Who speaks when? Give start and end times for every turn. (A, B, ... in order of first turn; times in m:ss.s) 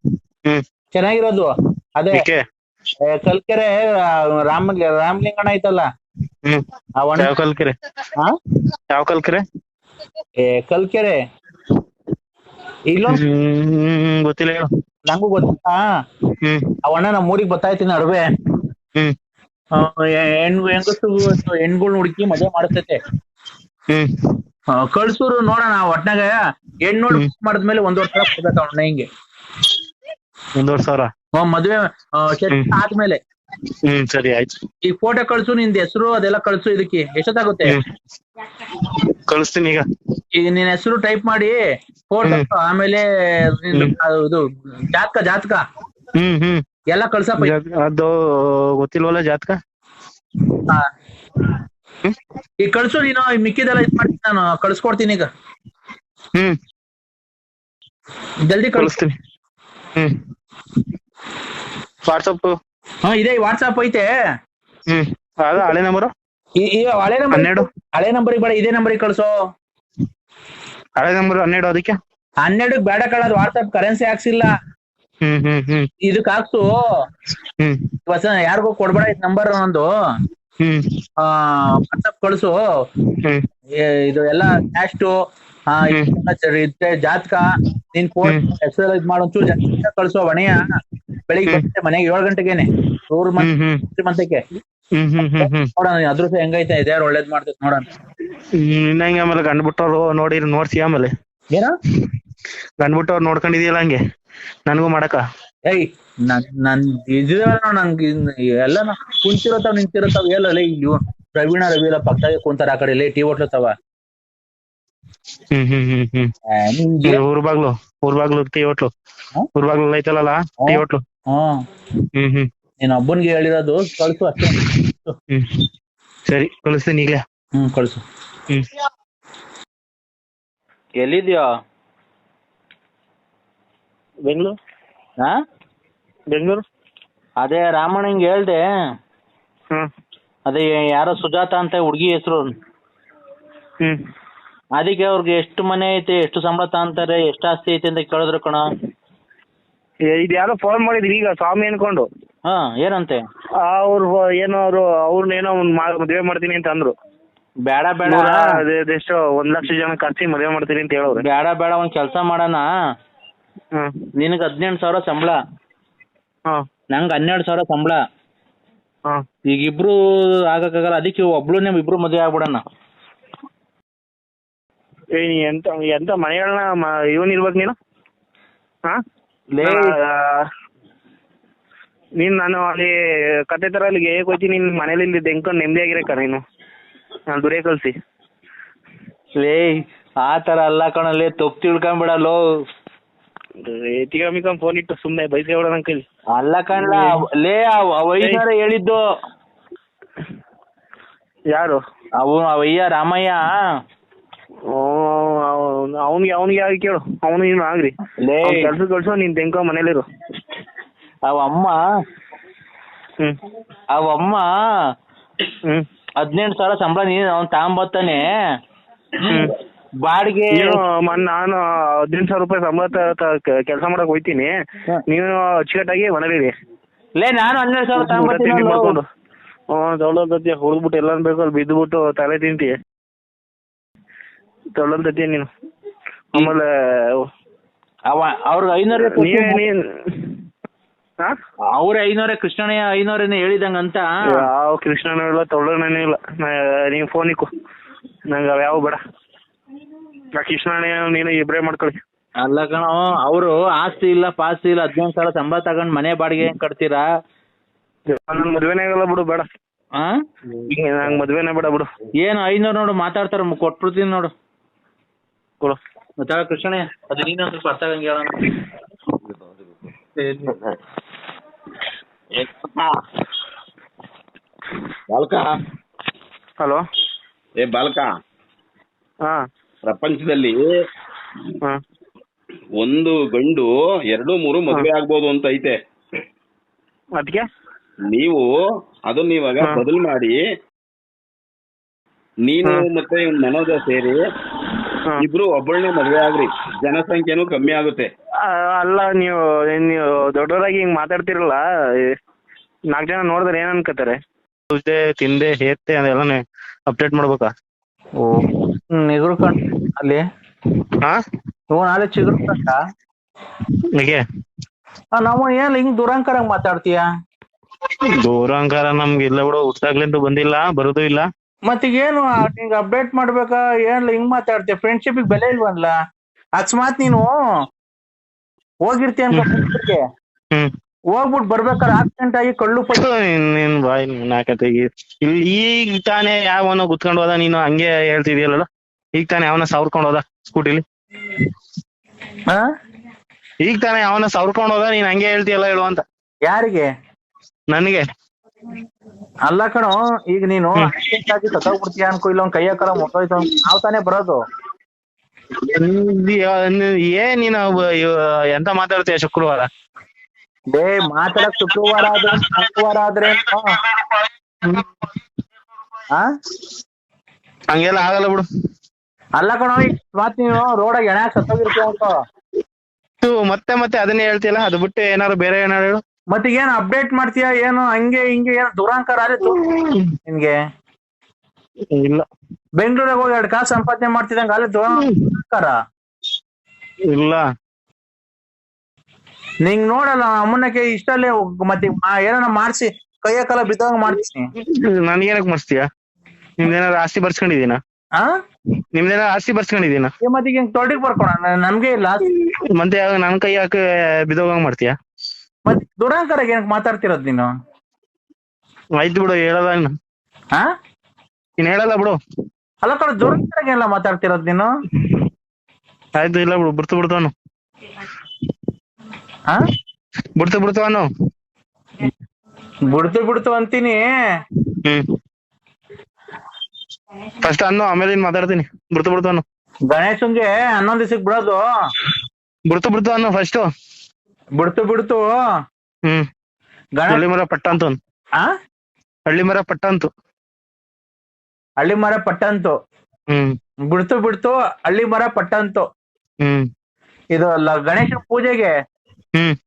0:00.9-0:02.2 A
0:02.1-0:02.4 B
0:03.1-0:03.9 A
0:04.4-0:05.9 A
0:07.0-0:07.3 A
0:07.2-0:07.8 B
0:08.9-0:09.4 B
0:10.4-0:11.2 A
0:12.9-0:13.2 A
0:13.1-0:14.7 B
0:15.1-0:15.8 A
0:16.4-0:16.8 B
0:16.8-0:18.3 A
0:19.8-0:23.0 A
0:24.8-0:29.1 A
0:30.6-0:31.1 B
0:31.4-0:33.2 A
0:33.8-0:34.5 B
0:34.9-0:37.8 A
0:38.8-0:39.8 B
0:40.4-0:41.6 A
0:42.1-0:45.6 A
0:46.2-0:46.6 B
0:46.9-0:47.5 A
0:47.4-0:49.6 B
0:52.6-0:55.3 A
0:58.5-0:58.9 A
0:58.8-0:59.1 B
1:02.1-1:02.6 B
1:03.1-1:04.1 A
1:04.9-1:06.1 B
1:06.6-1:09.3 A
1:07.3-1:07.7 B
1:11.0-1:12.0 B
1:12.4-1:14.5 A
1:15.2-1:15.9 B
1:16.0-1:16.7 A
1:18.1-1:19.9 A
1:20.6-1:20.8 B
1:21.2-1:22.6 A
1:23.8-1:25.1 A
1:25.7-1:30.7 A
1:25.9-1:26.2 B
1:31.3-1:34.4 A
1:33.4-1:33.8 B
1:35.0-1:35.7 B
1:35.2-1:37.9 A
1:38.6-1:41.1 B
1:42.8-1:44.0 B
1:44.7-1:45.2 B
1:45.7-1:53.7 A
1:55.5-1:56.3 B
1:56.5-1:57.2 A
1:57.0-1:58.9 B
1:59.6-2:01.0 B
2:00.6-2:01.5 A
2:02.2-2:02.5 B
2:02.8-2:05.1 A
2:05.3-2:05.6 B
2:06.3-2:07.2 B
2:07.6-2:08.0 A
2:11.0-2:11.5 A
2:14.3-2:14.6 B
2:16.3-2:16.6 B
2:17.4-2:18.6 A
2:20.5-2:22.5 A
2:24.8-2:28.7 A
2:30.1-2:32.1 B
2:32.5-2:33.2 A
2:33.6-2:36.9 B
2:37.7-2:38.5 A
2:38.1-2:41.2 B
2:41.2-2:42.6 A
2:44.2-2:45.4 A
2:46.9-2:48.0 A
2:49.5-2:50.0 A
2:50.5-2:52.6 A
2:55.2-2:57.7 B
2:59.6-2:59.9 A
2:59.6-3:00.4 B
3:02.2-3:02.9 B
3:03.5-3:06.4 B
3:07.3-3:07.9 B
3:09.4-3:12.4 A
3:13.7-3:16.0 B
3:16.4-3:19.0 A
3:16.8-3:17.0 B
3:21.5-3:21.8 B
3:22.2-3:23.5 A
3:24.8-3:27.9 B
3:28.2-3:28.7 A
3:28.4-3:30.0 B
3:31.3-3:31.8 A
3:34.0-3:34.4 A
3:36.2-3:38.3 A
3:40.1-3:40.8 A
3:40.5-3:44.5 B
3:45.1-3:46.5 B
3:47.2-3:49.0 A
3:48.0-3:49.0 B
3:49.8-3:52.7 B
3:54.8-3:55.5 B
3:56.4-3:56.7 B
3:58.1-3:59.6 A
3:59.0-4:00.4 B
4:01.8-4:04.4 A
4:04.3-4:07.5 B
4:08.3-4:09.0 B
4:10.4-4:12.0 B
4:12.4-4:17.0 A
4:18.1-4:19.4 B
4:20.7-4:21.9 B
4:22.2-4:24.3 A
4:26.2-4:28.5 A
4:29.2-4:29.6 C
4:30.2-4:30.6 A
4:32.4-4:33.0 C
4:35.1-4:35.6 C
4:37.6-4:38.1 C
4:39.8-4:40.6 C
4:42.8-4:45.8 C
4:47.2-4:47.4 B
4:48.1-4:48.5 C
4:49.1-4:50.4 C
4:52.5-4:54.2 C
4:55.2-4:58.1 C
4:58.5-5:01.6 B
5:02.9-5:04.2 B
5:04.7-5:07.5 B
5:08.2-5:10.2 A
5:11.7-5:12.8 A
5:14.0-5:14.2 B
5:15.2-5:17.0 A
5:18.2-5:21.3 B
5:21.7-5:25.9 A
5:26.6-5:27.4 A
5:28.9-5:30.0 A
5:29.3-5:29.7 B
5:31.2-5:33.0 A
5:32.9-5:40.8 B
5:43.6-5:46.0 B
5:46.5-5:46.9 A
5:47.7-5:48.0 B
5:49.5-5:54.4 A
5:55.6-5:59.7 B
6:00.7-6:03.8 A
6:04.0-6:04.8 B
6:07.7-6:08.5 B
6:09.4-6:12.2 A
6:13.2-6:16.0 B
6:16.3-6:19.6 A
6:19.6-6:20.1 B
6:20.3-6:20.6 A
6:21.9-6:22.3 B
6:22.8-6:25.7 A
6:27.1-6:27.4 B
6:29.6-6:34.5 A
6:34.6-6:35.8 B
6:36.6-6:37.8 B
6:39.0-6:40.1 B
6:40.2-6:42.2 A
6:42.3-6:45.0 B
6:45.7-6:47.5 A
6:49.0-6:49.9 B
6:51.6-6:52.2 B
6:52.8-6:54.7 A
6:56.2-6:57.3 B
7:00.4-7:01.1 B
7:02.9-7:04.0 A
7:04.7-7:05.1 B
7:07.4-7:09.4 B
7:09.9-7:11.6 A
7:12.7-7:13.7 B
7:14.6-7:15.3 A
7:17.0-7:17.2 A
7:17.1-7:18.0 B
7:19.3-7:20.1 B
7:21.8-7:22.7 A
7:23.3-7:23.6 B
7:23.9-7:25.8 A
7:27.4-7:28.7 A